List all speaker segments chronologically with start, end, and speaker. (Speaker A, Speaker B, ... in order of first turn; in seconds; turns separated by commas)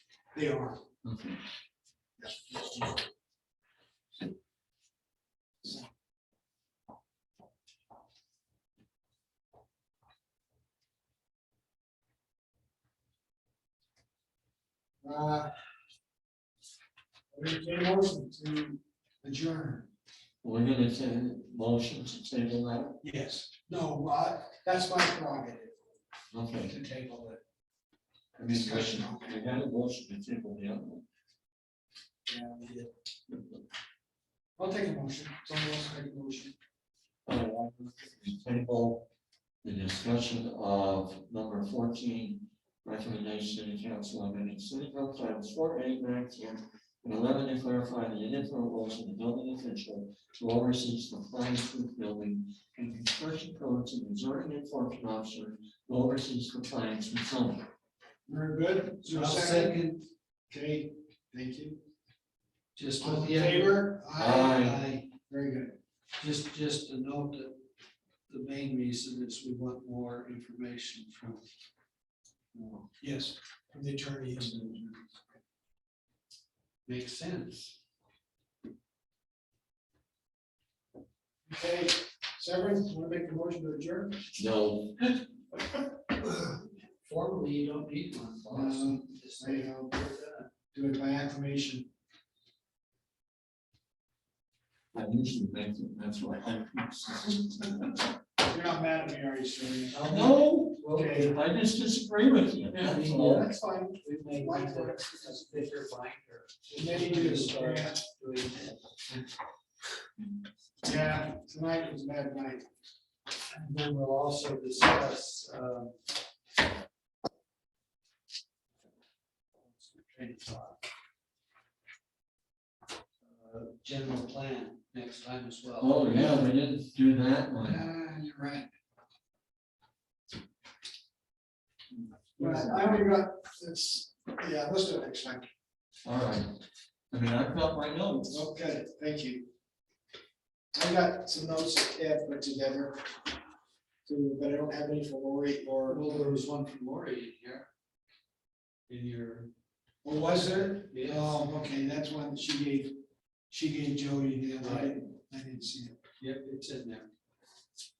Speaker A: 0.3-0.8, Speaker B: 1.0-1.4, Speaker A: 2.2-3.0, Speaker A: 15.0-15.5, Speaker A: 17.3-19.9, Speaker B: 20.4-23.0, Speaker A: 23.0-25.8, Speaker B: 26.3-26.7, Speaker A: 26.6-27.4, Speaker B: 28.4-31.1, Speaker A: 28.5-29.4, Speaker A: 32.3-32.9, Speaker A: 34.6-36.5, Speaker B: 37.3-39.1, Speaker B: 39.6-57.7, Speaker A: 58.3-59.8, Speaker C: 59.0-60.1, Speaker A: 60.5-61.8, Speaker C: 62.8-63.9, Speaker A: 63.0-64.8, Speaker B: 64.2-64.8, Speaker C: 64.5-65.1, Speaker A: 65.3-65.8, Speaker C: 66.2-67.6, Speaker C: 68.3-71.5, Speaker C: 72.5-72.8, Speaker A: 73.0-74.8, Speaker C: 76.9-77.8, Speaker A: 81.5-84.3, Speaker B: 84.3-84.9, Speaker C: 87.0-90.5, Speaker A: 88.5-90.0, Speaker A: 90.7-91.9, Speaker B: 94.9-97.8, Speaker A: 98.4-101.3, Speaker C: 99.9-101.3, Speaker B: 100.0-103.5, Speaker C: 102.7-103.5, Speaker A: 103.1-105.6, Speaker C: 104.0-109.0, Speaker A: 106.7-108.0, Speaker A: 110.8-112.7, Speaker C: 113.5-116.0, Speaker C: 119.7-120.8, Speaker C: 123.3-126.1, Speaker B: 125.8-127.8, Speaker A: 127.6-128.7, Speaker B: 132.4-133.0, Speaker A: 132.4-135.5, Speaker B: 136.0-136.5, Speaker B: 137.1-138.4, Speaker A: 138.3-139.5, Speaker A: 140.7-143.0, Speaker A: 144.1-146.4, Speaker C: 145.9-147.7, Speaker C: 148.9-149.5, Speaker A: 150.0-153.0, Speaker C: 150.9-151.3, Speaker A: 153.5-156.0, Speaker C: 154.6-154.9, Speaker C: 156.2-157.1